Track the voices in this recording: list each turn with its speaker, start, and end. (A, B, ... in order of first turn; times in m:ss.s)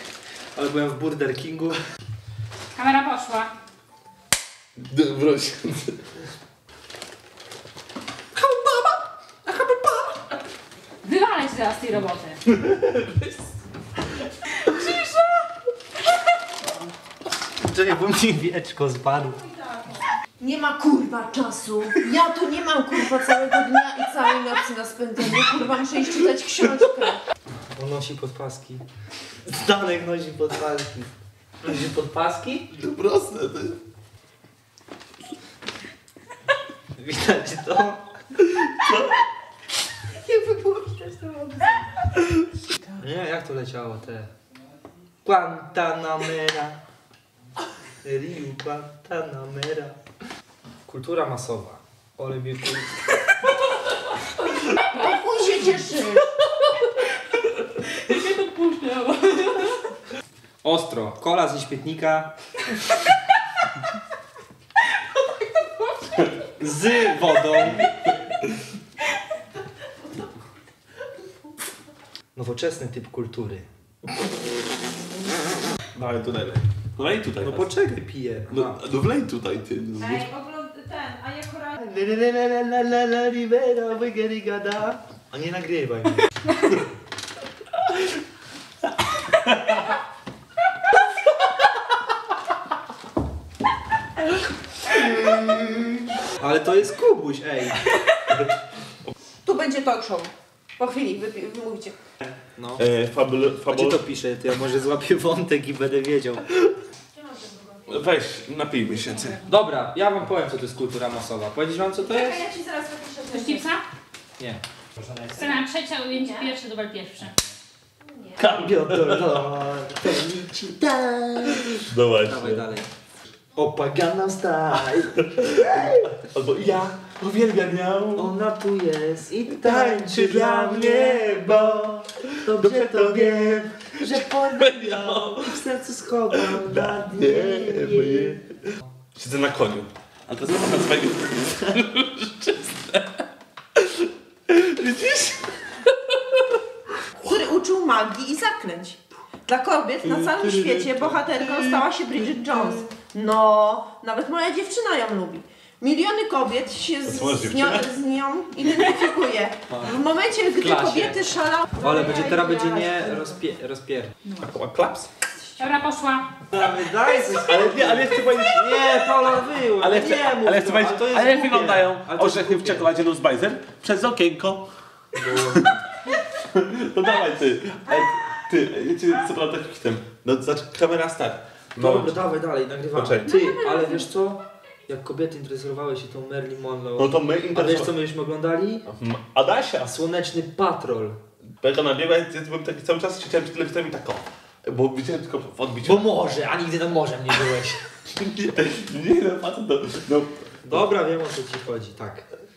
0:00.5-0:01.8 A
0:02.7-0:03.5 B
0:04.8-0:06.0 C
0:08.4-0:10.1 A
0:11.0-0:12.4 B
0:17.6-0:19.4 A
0:20.4-0:27.2 D
0:27.8-0:28.8 A
0:29.4-0:32.7 A
0:32.7-0:33.8 C
0:37.0-0:38.0 A
0:40.2-0:41.9 D
0:43.0-0:44.3 A
0:45.2-0:46.8 A
0:48.0-0:50.0 A
0:50.8-0:53.0 A
0:54.8-0:56.3 D
0:58.2-0:59.0 B
1:00.6-1:02.3 A
1:06.5-1:07.8 A
1:12.3-1:13.7 A
1:15.9-1:17.7 C
1:17.4-1:18.8 A
1:18.5-1:20.8 C
1:20.0-1:21.8 D
1:21.8-1:26.2 A
1:36.4-1:37.8 A
1:39.4-1:42.0 D
1:42.6-1:42.8 A
1:42.8-1:44.0 C
1:43.7-1:46.5 A
1:47.1-1:47.9 D
1:47.9-1:49.4 C
1:49.4-1:52.4 A
1:52.1-1:53.6 D
1:53.3-1:53.8 B
1:54.4-1:55.2 A
1:55.3-1:57.4 B
1:56.2-1:56.5 D
1:58.0-1:58.4 D
1:58.4-1:59.4 C
1:58.4-2:02.9 A
2:01.9-2:02.6 C
2:03.5-2:06.2 A
2:05.8-2:08.4 C
2:08.1-2:18.4 A
2:09.5-2:11.7 C
2:12.4-2:15.6 C
2:16.3-2:18.4 C
2:19.2-2:23.2 C
2:23.8-2:26.4 C
2:27.2-2:43.3 D
2:30.0-2:32.8 C
2:37.0-2:37.9 C
2:39.7-2:40.0 A
2:40.6-2:41.2 A
2:41.8-2:45.1 A
2:45.6-2:46.3 B
2:46.5-2:52.9 A
2:47.3-2:54.6 C
2:55.1-2:55.7 A
2:56.5-3:02.2 C
3:01.8-3:08.8 A
3:02.9-3:03.4 C
3:07.0-3:07.9 C
3:08.9-3:09.8 C
3:09.8-3:11.2 A
3:11.6-3:16.0 C
3:15.8-3:17.8 A
3:18.2-3:20.8 C
3:20.6-3:22.3 A